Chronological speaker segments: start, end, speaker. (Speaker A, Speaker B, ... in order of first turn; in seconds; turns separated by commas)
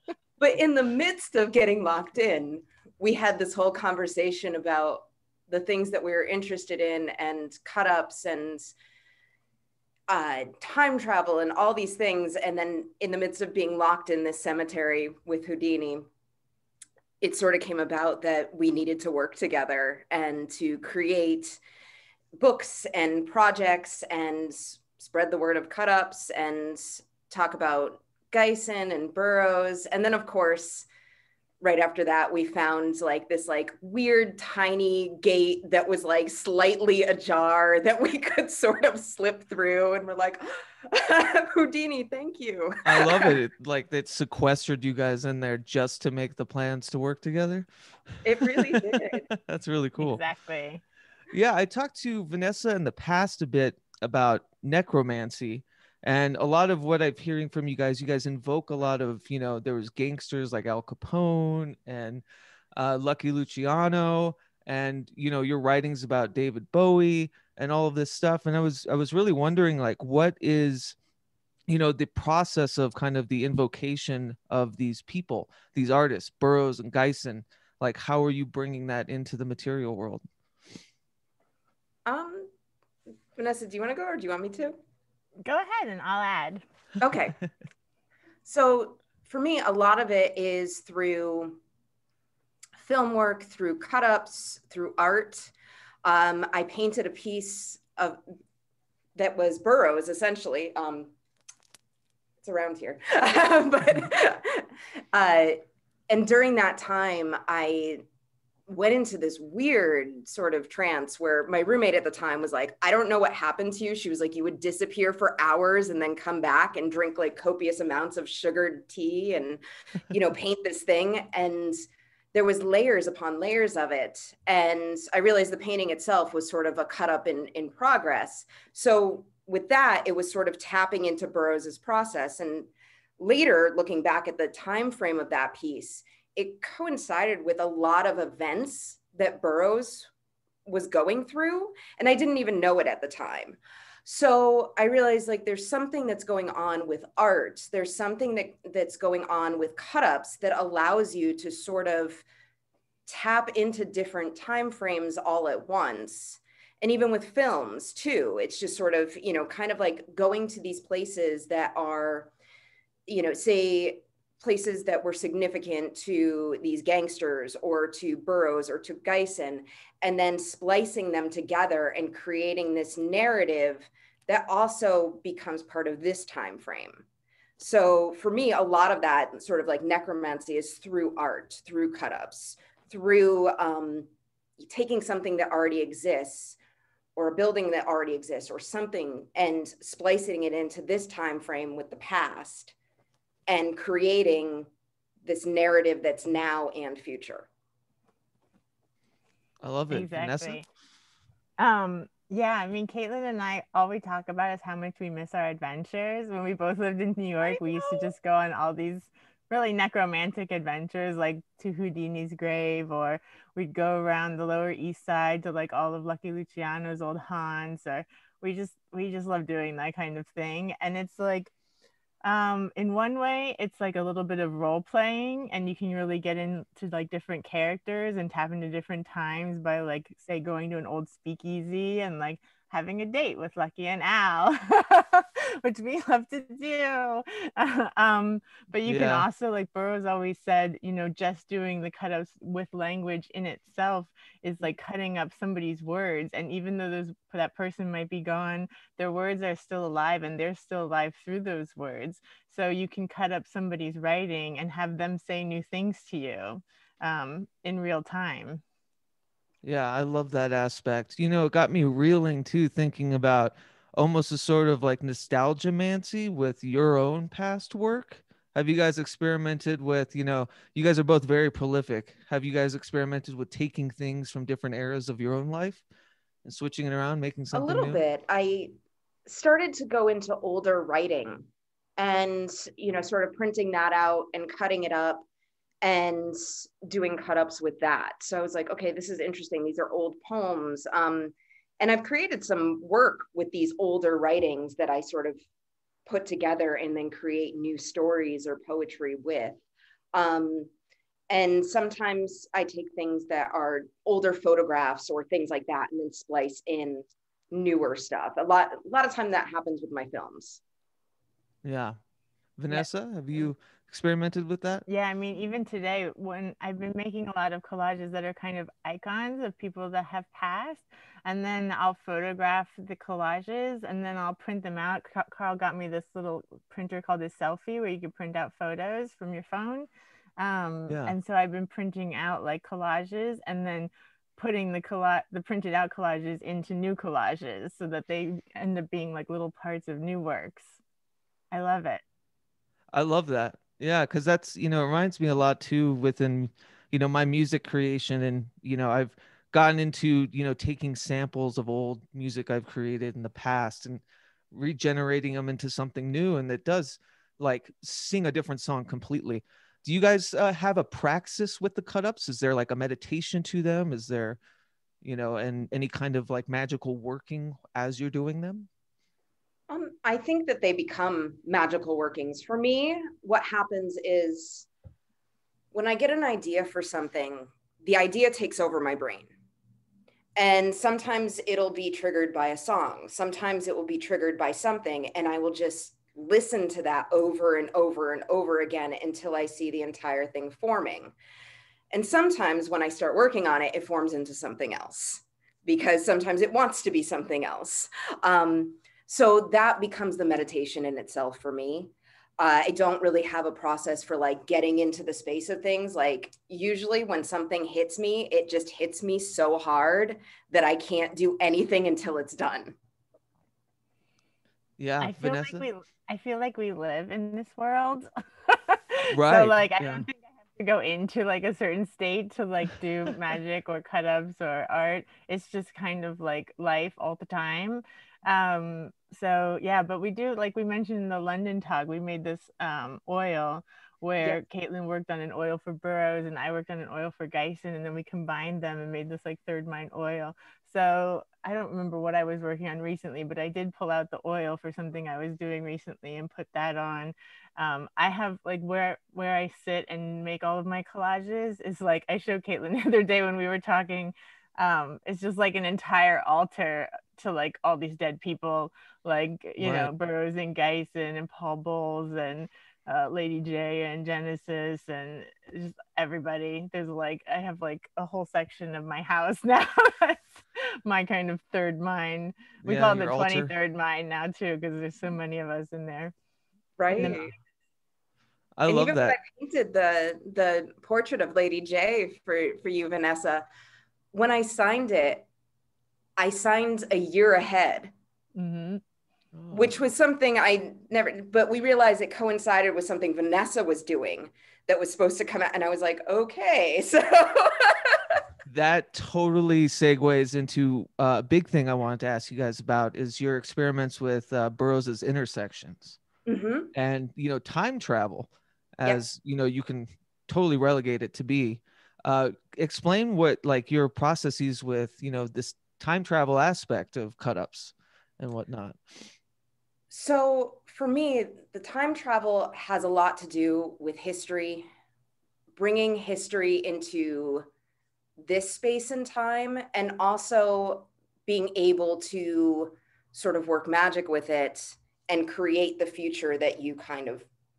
Speaker A: 0.4-8.7, Speaker A: 10.1-16.1, Speaker A: 17.2-21.6, Speaker A: 22.3-30.9, Speaker A: 31.6-43.4, Speaker B: 42.8-47.7, Speaker A: 48.2-49.2, Speaker B: 48.4-50.2, Speaker C: 50.0-50.8, Speaker B: 51.3-62.2, Speaker B: 62.8-71.0, Speaker B: 71.7-80.2, Speaker A: 82.0-82.5, Speaker A: 83.3-84.8, Speaker C: 85.4-86.6, Speaker A: 87.0-87.3, Speaker A: 88.4-91.6, Speaker A: 92.8-95.5, Speaker A: 96.0-98.2, Speaker A: 99.2-101.1, Speaker A: 102.4-108.0, Speaker A: 108.7-121.8, Speaker A: 122.3-140.1, Speaker A: 140.7-152.2, Speaker A: 153.1-162.3, Speaker A: 163.1-177.0, Speaker A: 177.6-186.6, Speaker A: 187.2-192.7, Speaker A: 193.5-194.7, Speaker A: 195.2-197.5, Speaker B: 199.6-200.6, Speaker C: 199.9-200.7, Speaker C: 201.6-221.5, Speaker A: 207.6-208.1, Speaker C: 222.2-258.6, Speaker B: 238.8-239.3, Speaker B: 259.6-275.8, Speaker B: 276.4-278.0, Speaker A: 277.5-278.7, Speaker A: 279.2-285.2, Speaker A: 285.8-295.4, Speaker A: 296.1-299.6, Speaker A: 300.1-300.7, Speaker A: 301.3-310.6, Speaker B: 311.6-312.0, Speaker B: 312.6-314.9, Speaker C: 314.9-340.7, Speaker B: 330.9-331.1, Speaker C: 341.5-342.0, Speaker B: 342.9-364.4, Speaker B: 365.0-368.7, Speaker A: 369.7-374.7, Speaker A: 375.7-379.3, Speaker A: 380.4-391.1, Speaker A: 391.9-412.8, Speaker B: 414.8-415.7, Speaker C: 415.0-476.1, Speaker B: 419.1-420.1, Speaker B: 459.6-459.9, Speaker B: 472.6-473.5, Speaker A: 476.8-477.3, Speaker C: 476.9-477.3, Speaker B: 477.0-477.2, Speaker B: 478.6-479.2, Speaker A: 478.6-483.5, Speaker A: 484.1-485.2, Speaker A: 486.2-487.9, Speaker C: 488.3-488.8, Speaker B: 489.4-489.8, Speaker A: 489.5-498.2, Speaker B: 498.4-506.0, Speaker A: 506.2-506.7, Speaker B: 506.7-519.1, Speaker A: 519.9-524.7, Speaker A: 525.6-527.5, Speaker A: 528.2-537.3